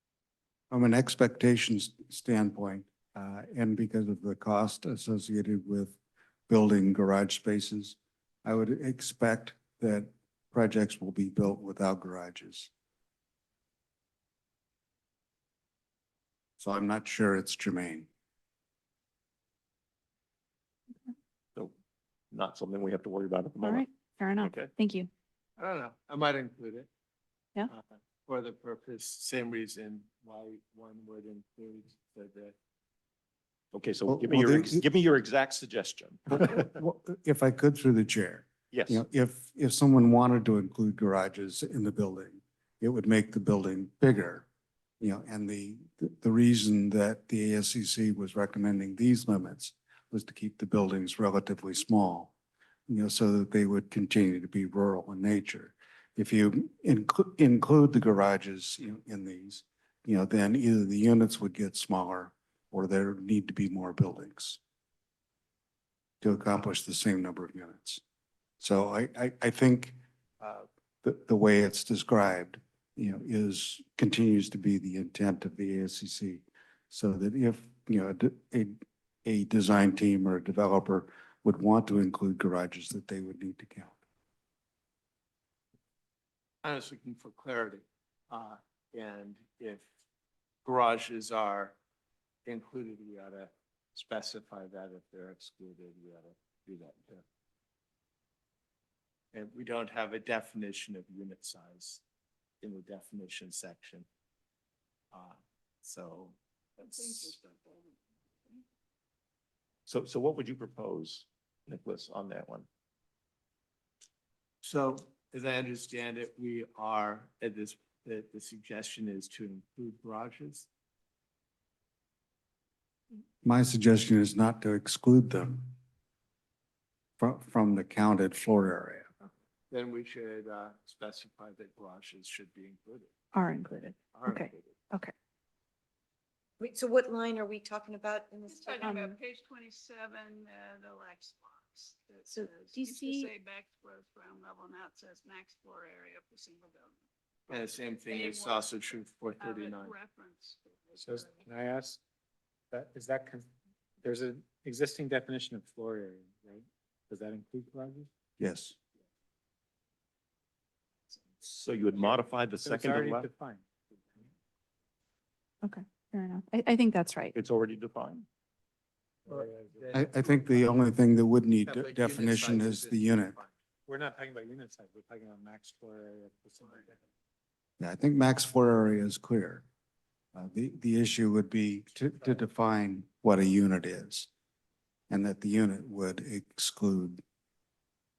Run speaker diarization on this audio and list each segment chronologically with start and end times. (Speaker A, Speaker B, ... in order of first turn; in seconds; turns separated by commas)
Speaker A: 0.7-6.0, Speaker A: 6.5-12.7, Speaker A: 16.6-18.1, Speaker B: 22.3-23.8, Speaker C: 23.6-25.1, Speaker B: 24.4-24.7, Speaker D: 25.6-26.9, Speaker D: 27.7-32.5, Speaker B: 33.7-36.7, Speaker A: 34.1-34.8, Speaker A: 36.3-44.5, Speaker B: 38.7-39.0, Speaker A: 45.0-52.3, Speaker A: 52.9-64.6, Speaker A: 66.2-68.0, Speaker A: 68.6-84.0, Speaker D: 86.6-89.9, Speaker D: 90.6-91.8, Speaker D: 92.4-97.2, Speaker D: 99.3-102.0, Speaker D: 102.6-104.1, Speaker D: 105.1-106.3, Speaker E: 106.8-108.0, Speaker D: 106.9-107.4, Speaker B: 109.9-112.7, Speaker D: 114.6-120.7, Speaker A: 123.4-125.7, Speaker A: 127.2-129.1, Speaker D: 129.7-133.1, Speaker C: 133.3-135.1, Speaker D: 134.1-134.8, Speaker F: 136.6-139.1, Speaker E: 138.5-151.4, Speaker C: 138.8-139.1, Speaker F: 142.3-143.3, Speaker D: 147.5-149.9, Speaker G: 151.0-152.0, Speaker G: 152.7-153.5, Speaker G: 154.0-158.1, Speaker A: 158.4-158.7, Speaker B: 161.4-163.3, Speaker G: 162.6-163.7, Speaker C: 165.6-167.3, Speaker B: 167.3-168.3, Speaker D: 169.3-170.7, Speaker G: 169.3-169.9, Speaker A: 169.9-173.4, Speaker D: 171.6-173.5, Speaker G: 173.8-177.0, Speaker A: 177.8-179.6, Speaker A: 180.3-184.3, Speaker A: 185.1-187.2